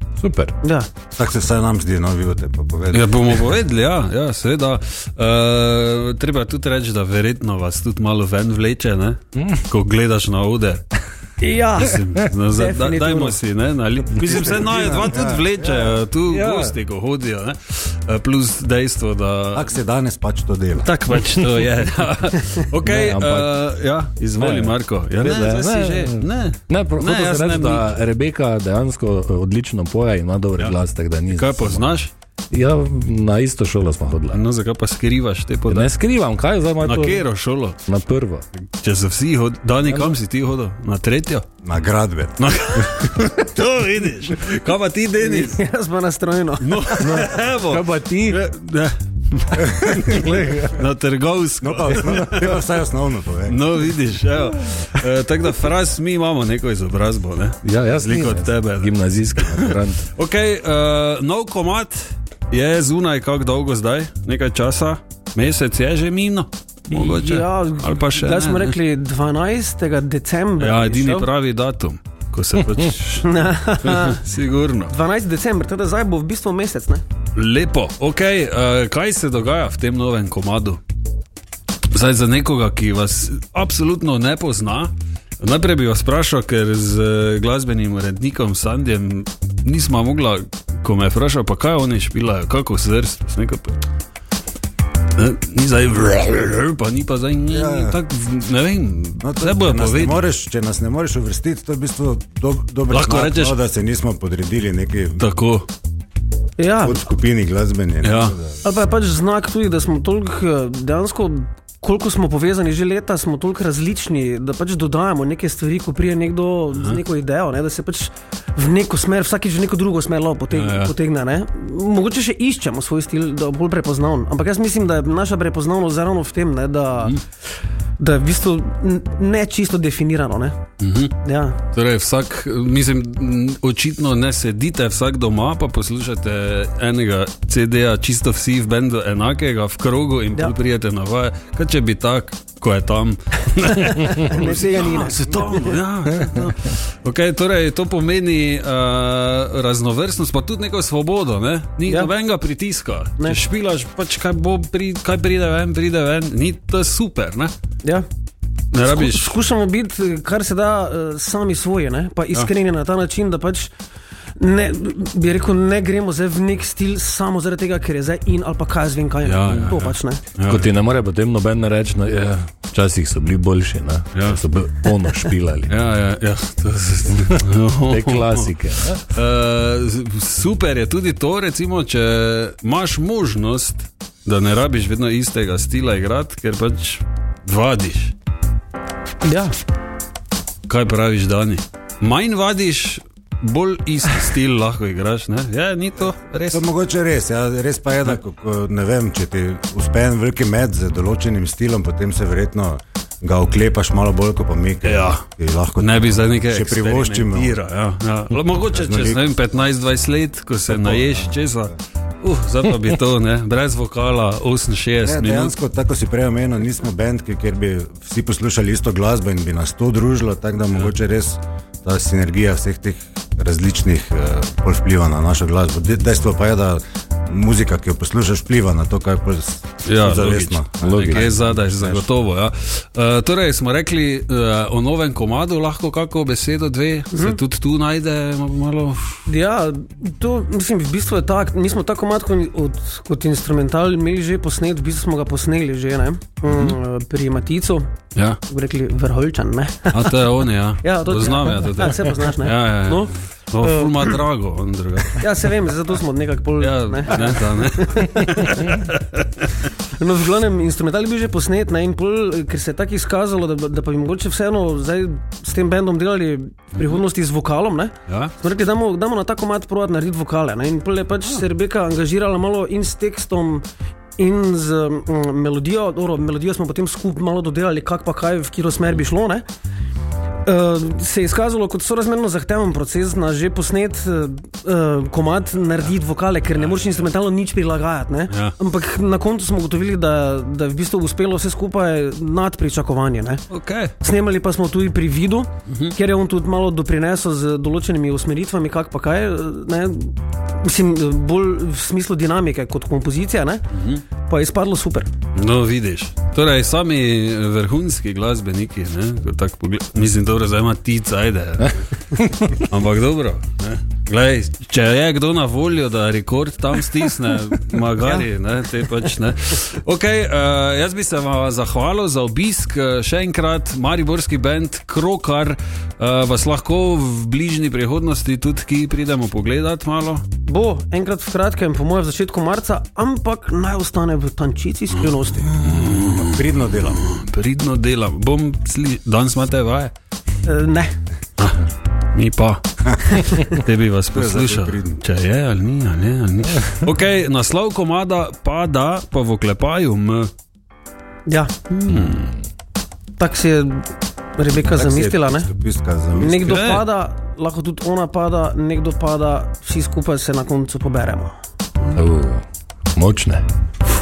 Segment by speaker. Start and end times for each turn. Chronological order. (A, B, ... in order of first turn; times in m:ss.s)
0:00.2-0:00.5 A
0:00.6-0:00.9 B
0:01.2-0:03.4 C
0:02.9-0:10.9 D
0:09.4-0:09.6 A
0:11.4-0:13.4 B
0:11.8-0:19.8 D
0:14.1-0:16.0 C
0:16.3-0:16.8 A
0:19.5-0:20.9 C
0:20.8-0:27.9 D
0:22.8-0:23.5 A
0:24.4-0:31.9 A
0:31.3-0:32.1 D
0:32.5-0:34.4 A
0:34.3-0:35.9 D
0:35.7-0:37.3 A
0:36.8-0:37.8 D
0:37.9-0:38.5 A
0:38.6-0:41.5 D
0:39.9-0:40.1 A
0:41.6-0:42.4 C
0:42.4-0:45.6 D
0:45.2-0:47.1 B
0:46.6-0:52.6 D
0:47.0-0:48.4 A
0:49.8-0:50.8 A
0:51.6-0:53.9 C
0:53.5-1:08.8 D
0:57.6-1:00.1 A
1:06.9-1:11.3 B
1:10.6-1:14.9 D
1:13.2-1:14.2 B
1:14.9-1:17.0 B
1:17.4-1:20.8 D
1:21.9-1:33.8 D
1:35.2-1:40.2 D
1:37.5-1:38.0 C
1:39.2-1:45.2 C
1:42.9-1:43.6 D
1:45.2-1:45.7 D
1:46.6-1:47.0 B
1:46.8-1:48.6 C
1:48.0-1:48.4 D
1:48.6-2:07.2 B
2:00.5-2:00.9 D
2:08.0-2:10.6 B
2:10.8-2:11.2 D
2:11.2-2:11.6 B
2:11.7-2:37.5 D
2:23.8-2:25.8 B
2:26.1-2:26.5 A
2:31.9-2:32.1 B
2:38.7-2:39.4 D
2:38.8-2:43.7 B
2:44.4-2:50.2 B
2:49.2-2:50.7 D
2:50.5-2:55.8 A
2:54.1-2:54.4 D
2:55.7-2:58.5 D
2:57.1-2:59.0 A
2:59.1-3:08.1 D
3:09.2-3:09.5 B
3:10.7-3:16.7 D
3:16.5-3:27.5 C
3:24.8-3:25.2 D
3:25.8-3:35.5 D
3:28.6-3:29.2 C
3:30.7-3:31.4 C
3:35.0-3:52.0 C
3:49.8-3:59.2 D
3:50.8-3:51.3 A
3:57.1-3:57.4 B
3:59.2-4:07.9 B
4:06.5-4:06.8 D
4:08.1-4:08.4 D
4:08.5-4:10.2 B
4:09.9-4:15.3 D
4:10.8-4:14.2 B
4:15.1-4:18.7 B
4:16.6-4:19.4 D
4:19.9-4:33.6 B
4:28.1-4:28.3 D
4:34.2-4:39.5 B
4:40.4-4:53.4 B
4:46.6-4:47.0 D
4:48.3-4:48.6 D
4:53.5-4:53.9 D
4:54.0-5:03.6 B
4:55.7-4:55.9 D
5:03.7-5:04.0 D
5:04.2-5:05.1 B
5:05.4-5:11.9 D
5:12.2-5:12.5 A
5:12.5-5:30.2 D
5:30.5-5:35.5 B
5:35.5-5:39.9 D
5:35.8-5:37.0 C
5:40.5-5:40.9 B
5:41.4-5:50.3 D
5:44.1-5:45.0 C
5:51.3-5:51.5 B
5:51.7-5:52.3 D
5:51.9-5:52.4 A
5:53.2-5:55.5 B
5:54.6-5:56.6 C
5:56.2-6:01.4 B
5:56.4-5:56.8 D
6:01.9-6:03.4 A